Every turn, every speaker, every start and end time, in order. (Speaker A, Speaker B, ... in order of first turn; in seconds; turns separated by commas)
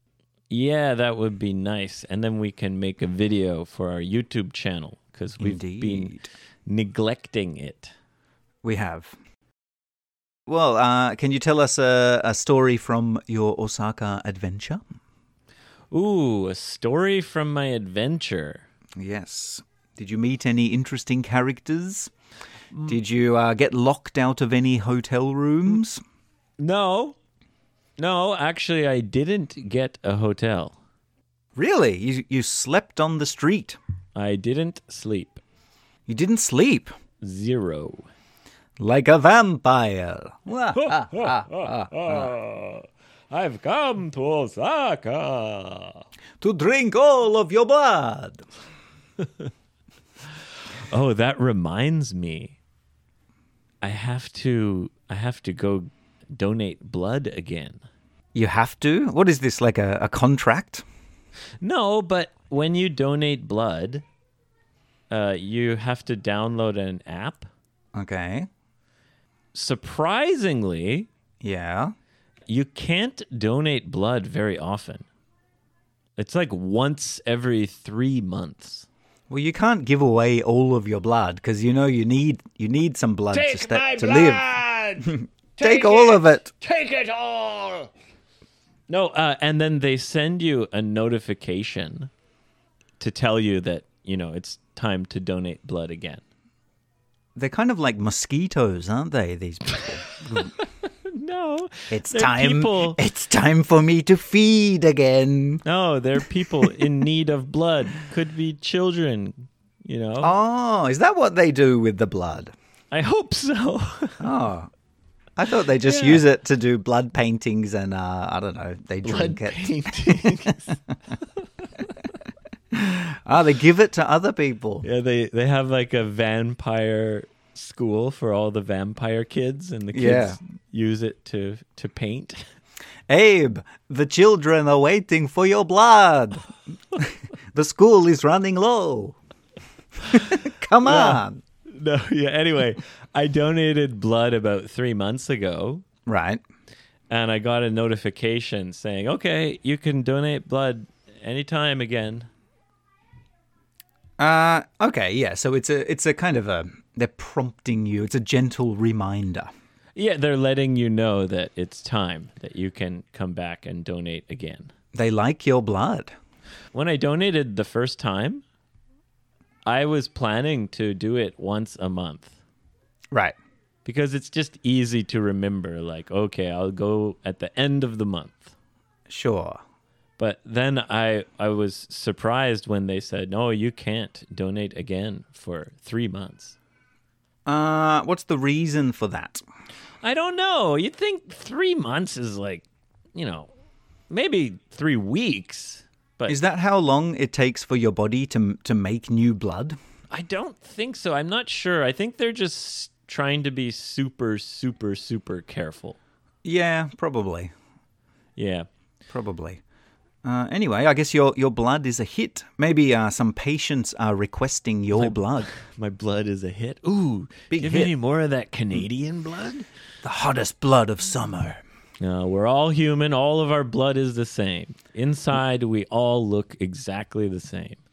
Speaker A: 0.5-6.1, Speaker B: 5.4-6.3, Speaker A: 6.7-7.9, Speaker B: 8.6-9.1, Speaker B: 10.5-14.8, Speaker A: 15.9-18.6, Speaker B: 18.9-22.1, Speaker B: 22.9-26.0, Speaker A: 26.6-27.2, Speaker A: 28.0-30.8, Speaker B: 31.6-33.8, Speaker A: 34.1-35.4, Speaker B: 36.1-36.9, Speaker A: 37.2-38.1, Speaker B: 38.8-42.3, Speaker A: 40.7-46.0, Speaker B: 46.4-48.4, Speaker A: 49.2-49.5, Speaker A: 50.7-52.6, Speaker A: 53.8-57.8, Speaker B: 58.3-60.8, Speaker A: 61.6-64.0, Speaker A: 65.1-67.5, Speaker B: 67.9-68.5, Speaker A: 69.5-71.1, Speaker B: 71.4-71.9, Speaker A: 72.5-75.0, Speaker A: 76.2-78.9, Speaker B: 79.3-84.4, Speaker A: 83.3-87.9, Speaker B: 85.0-86.5, Speaker A: 88.9-92.1, Speaker A: 93.0-96.2, Speaker B: 97.3-100.5, Speaker A: 100.2-103.0, Speaker B: 101.9-105.6, Speaker A: 105.6-110.3, Speaker B: 110.2-112.5, Speaker A: 112.9-114.2, Speaker B: 114.2-114.7, Speaker B: 115.4-120.8, Speaker A: 115.8-116.2, Speaker A: 119.0-120.7, Speaker B: 122.7-124.9, Speaker A: 124.8-132.4, Speaker B: 129.9-130.4, Speaker B: 133.1-139.2, Speaker B: 140.1-141.4, Speaker A: 140.8-145.8, Speaker B: 146.1-146.4, Speaker A: 147.1-152.3, Speaker B: 154.2-159.5, Speaker A: 159.9-164.7, Speaker B: 164.9-166.1, Speaker A: 166.7-168.4, Speaker A: 169.6-172.3, Speaker A: 173.8-178.5, Speaker B: 179.1-179.6, Speaker A: 180.2-186.6, Speaker B: 187.4-189.4, Speaker A: 190.0-193.5, Speaker A: 194.1-196.4, Speaker B: 196.3-199.8, Speaker A: 200.1-206.0, Speaker B: 206.4-207.5, Speaker A: 208.3-208.7, Speaker B: 209.1-209.6, Speaker B: 210.2-215.5, Speaker A: 214.9-219.7, Speaker B: 217.5-217.9, Speaker B: 220.0-221.6, Speaker A: 222.0-227.8